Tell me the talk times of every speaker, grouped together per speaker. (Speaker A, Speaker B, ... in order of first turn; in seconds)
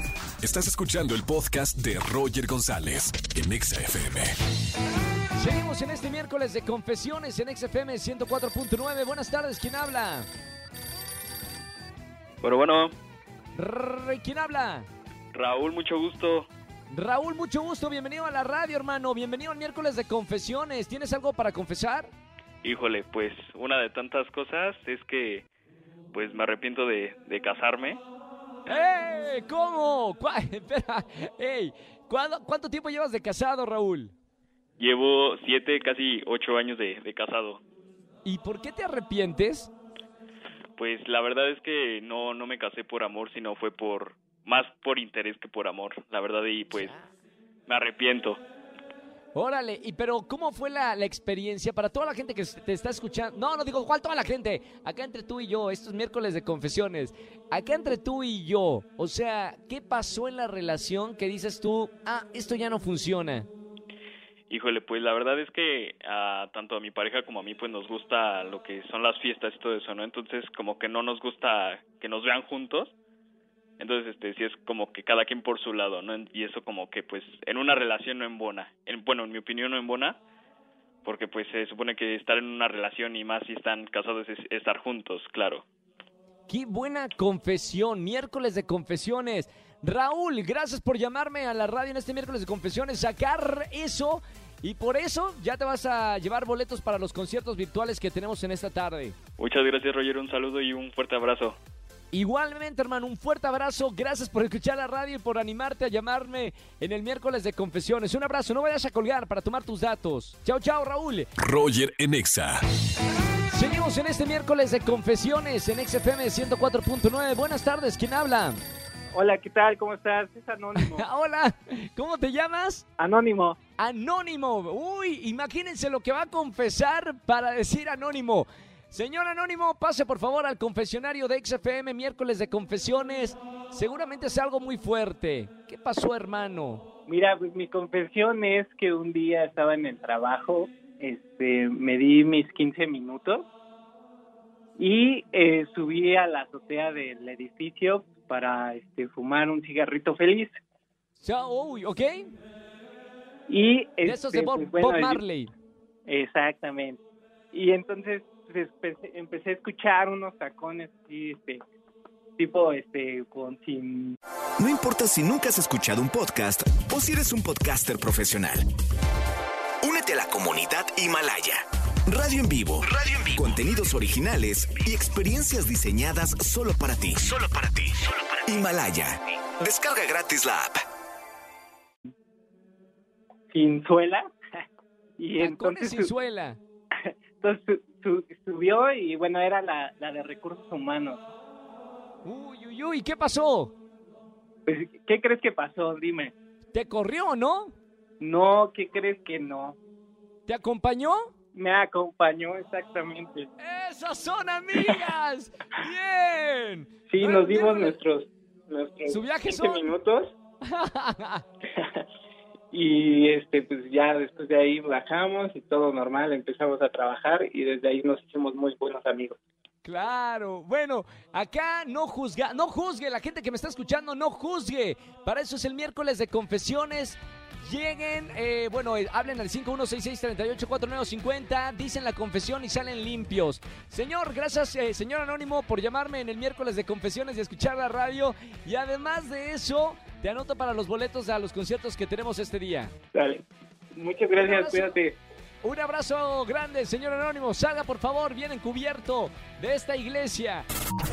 Speaker A: 0.4-4.4, 111.4-112.6
Speaker B: 5.3-10.3, 13.6-14.9, 16.9-22.1, 28.7-34.1, 38.2-39.7, 46.8-47.1, 49.4-63.5, 86.5-99.2, 102.1-111.3, 113.5-118.6, 120.8-122.8, 123.8-136.8, 151.2-152.2, 154.1-155.5, 185.4-186.6, 192.2-193.7, 196.7-197.8, 200.5-201.2, 203.6-208.0, 209.1-209.9, 210.7-211.4, 219.8-242.9, 244.4-244.9, 245.6-250.7
Speaker C: 12.4-12.9, 15.3-16.5, 22.6-25.5, 26.1-28.0, 34.8-37.6, 40.8-46.9, 47.7-48.4, 64.5-72.9, 73.8-80.2, 81.0-85.7, 99.4-101.6
Speaker D: 119.1-121.0, 123.0-123.6, 137.1-143.5, 144.8-150.6, 153.5-155.2, 156.1-157.0, 157.5-161.6, 162.4-164.2, 183.5-184.3, 185.2-186.1, 187.0-191.3, 194.7-196.3, 198.2-199.8, 201.5-203.5, 207.1-210.3, 211.8-212.1, 212.7-219.4, 243.1-245.2
Speaker E: 164.6-168.7, 169.8-180.8